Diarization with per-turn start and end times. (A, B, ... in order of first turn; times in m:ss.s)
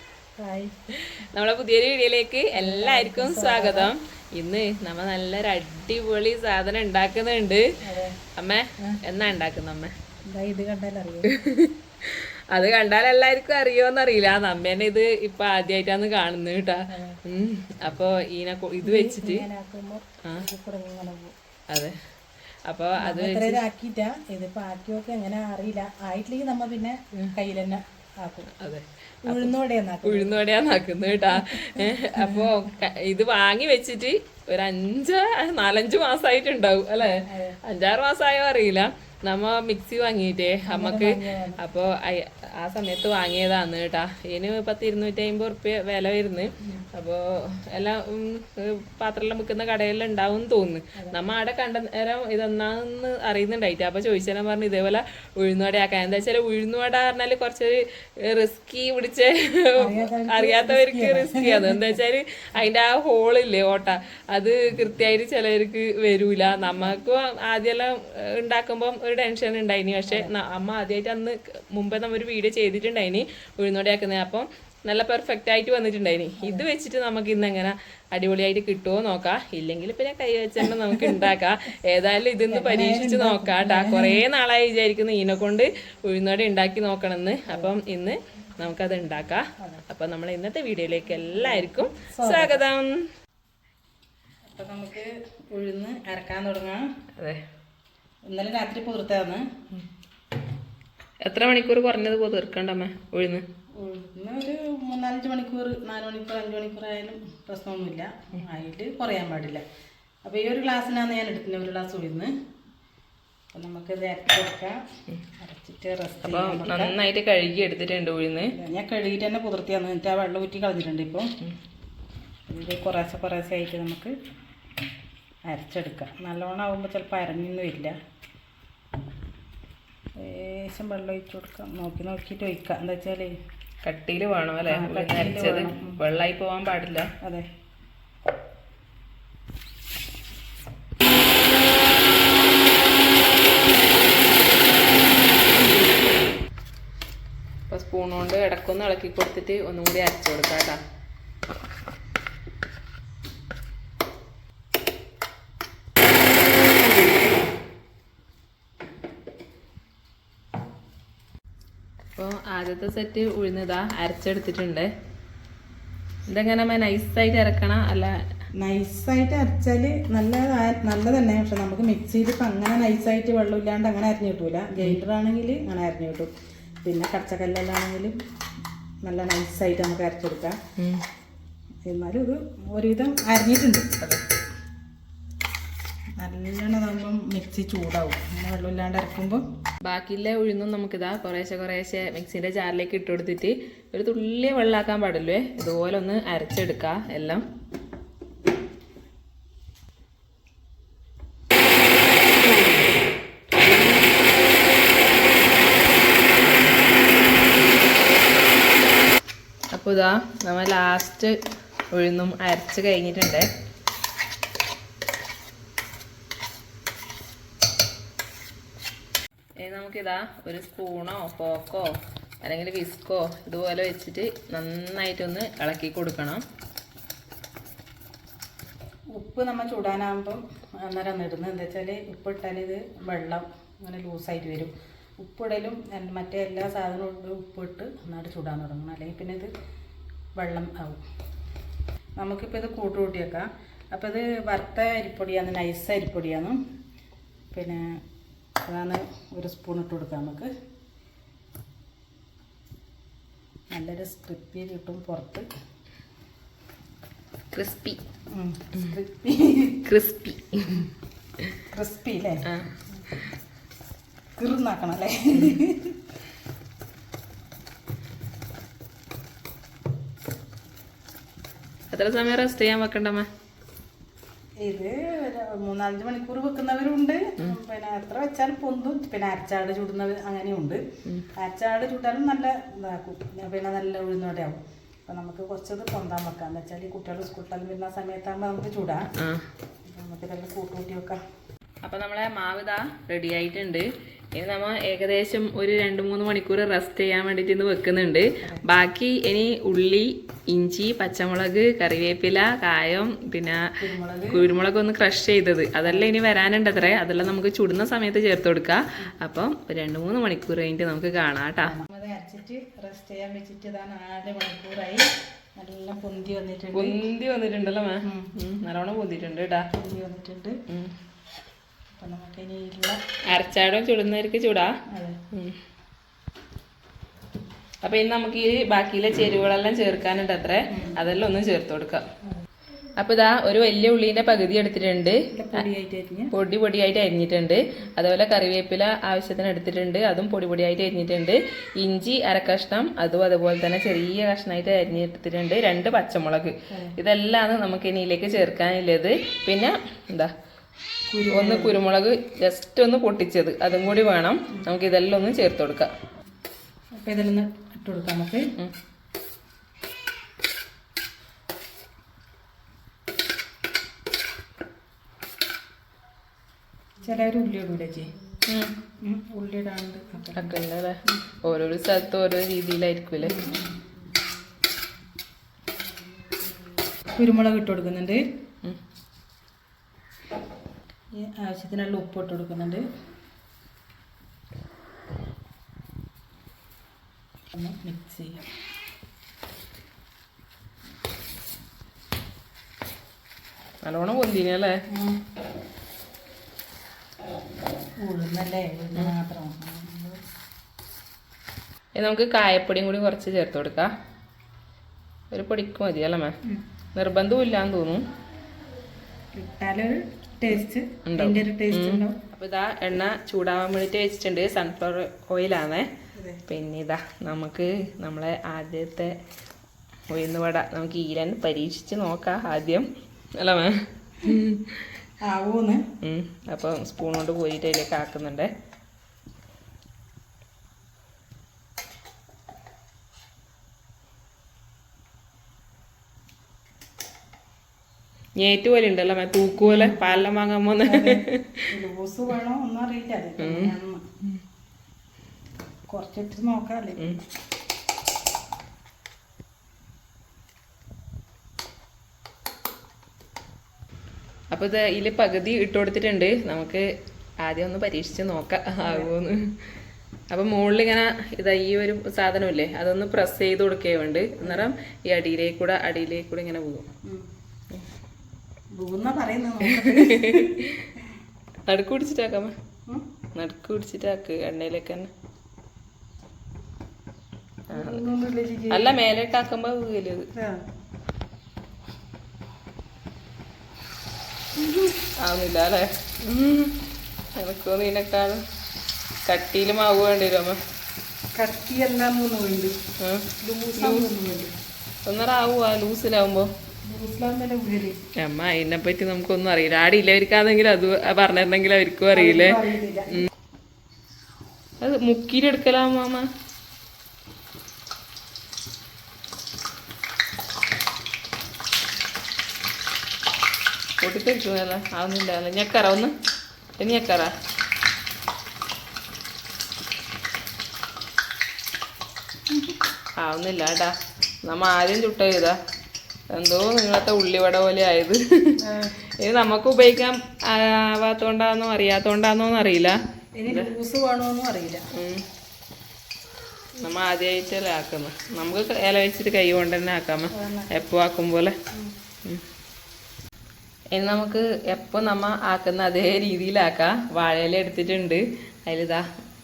0:00.4-0:00.7 A
0:01.3-0:07.6 B
0:02.5-0:03.9 A
0:07.8-0:08.2 A
0:08.3-0:09.9 B
0:10.3-0:11.3 A
0:11.3-0:19.4 B
0:16.9-0:17.2 A
0:18.8-0:21.3 A
0:22.7-0:23.6 B
0:23.0-0:28.5 A
0:28.5-0:29.5 B
0:29.2-0:30.4 A
0:30.0-1:33.1 B
0:31.3-0:32.5 A
0:37.2-0:37.6 A
0:40.6-0:41.6 A
0:59.8-1:02.0 A
1:16.4-1:16.7 A
1:20.6-1:21.2 A
1:22.5-1:24.2 A
1:27.5-1:27.7 A
1:29.6-1:29.8 A
1:31.3-1:32.6 A
1:34.5-1:36.8 A
1:38.3-1:39.4 A
1:41.2-1:43.4 B
1:43.8-1:49.6 A
1:50.2-1:52.3 A
1:53.5-1:54.8 A
1:55.4-1:57.0 A
1:56.2-1:58.5 B
1:58.5-2:01.3 A
2:02.5-2:04.1 A
2:05.5-2:07.9 A
2:10.2-2:13.3 A
2:13.8-2:17.1 B
2:14.7-2:16.0 A
2:27.7-2:30.8 B
2:42.2-2:44.9 B
2:46.3-2:48.1 B
2:48.6-2:56.3 A
2:56.8-2:58.2 A
2:59.0-3:00.6 A
3:01.9-3:03.9 A
3:06.2-3:09.4 A
3:09.8-3:17.4 B
3:22.5-3:22.8 A
3:29.7-3:31.3 B
3:31.9-3:33.4 B
3:39.6-3:41.9 B
3:42.4-3:46.4 B
3:49.2-3:59.5 A
4:00.4-4:01.0 A
4:02.2-4:06.6 A
4:07.5-4:07.9 A
4:08.6-4:10.5 A
4:13.7-4:15.5 A
4:17.5-4:18.0 B
4:18.3-4:19.8 A
4:19.8-4:20.9 B
4:21.7-4:22.4 A
4:22.5-4:23.2 B
4:24.4-4:26.0 A
4:31.9-4:33.3 B
4:34.6-4:40.8 A
4:41.4-4:49.0 A
4:49.2-4:49.4 B
4:49.9-4:51.2 A
4:51.8-5:03.6 B
5:03.8-5:04.4 A
5:04.3-5:11.7 B
5:05.8-5:06.1 A
5:11.6-5:15.0 A
5:15.6-5:17.0 A
5:16.7-5:19.6 B
5:19.7-5:20.5 A
5:22.0-5:23.0 A
5:23.3-5:24.7 B
5:24.9-5:25.2 A
5:27.8-5:32.0 B
5:30.7-5:31.0 A
5:33.0-5:35.6 B
5:35.3-5:36.3 A
5:36.3-5:50.3 B
5:51.1-5:51.8 A
5:51.3-5:55.9 B
5:57.0-5:58.4 A
6:07.0-6:08.1 A
6:08.5-6:08.7 B
6:09.0-6:10.6 A
6:10.3-6:13.5 B
6:13.2-6:13.7 A
6:17.1-6:18.2 A
6:21.2-6:22.8 A
6:27.5-6:28.4 A
6:33.8-6:34.7 B
6:34.9-6:35.2 A
6:38.0-6:40.2 A
6:42.0-6:43.9 B
6:45.3-6:46.3 B
6:46.9-6:48.0 B
6:49.3-6:52.2 A
6:51.0-6:55.9 B
6:56.5-6:59.1 B
7:00.1-7:02.8 B
7:03.4-7:04.9 B
7:05.2-7:05.8 A
7:06.0-7:08.5 B
7:18.4-7:21.7 B
7:19.6-7:20.0 A
7:20.8-7:24.0 A
7:23.4-7:23.7 B
7:25.9-7:27.0 A
7:34.5-7:36.8 B
7:37.4-7:39.5 B
7:38.8-7:39.1 A
7:40.3-7:46.9 B
7:44.4-7:44.7 A
7:48.8-7:51.0 A
7:49.6-7:50.8 B
7:51.7-7:52.5 B
7:53.3-7:55.1 B
7:57.7-7:58.0 B
7:57.7-7:59.0 A
7:58.7-8:00.3 B
8:00.3-8:00.6 A
8:05.2-8:06.8 B
8:07.4-8:08.4 B
8:09.3-8:10.6 B
8:11.4-8:12.7 A
8:13.0-8:13.3 B
8:13.4-8:14.5 A
8:13.8-8:14.1 B
8:15.0-8:16.5 B
8:16.9-8:18.0 A
8:18.2-8:23.3 B
8:22.1-8:23.2 A
8:24.8-8:26.3 B
8:34.0-8:36.1 B
8:36.8-8:37.3 B
8:43.2-8:43.9 B
8:44.4-8:45.5 B
8:46.3-8:48.6 B
8:48.6-8:49.0 A
8:49.2-8:53.0 B
8:53.4-8:54.8 A
8:54.9-8:55.2 B
8:56.8-9:01.5 B
9:00.3-9:00.8 A
9:03.9-9:09.0 B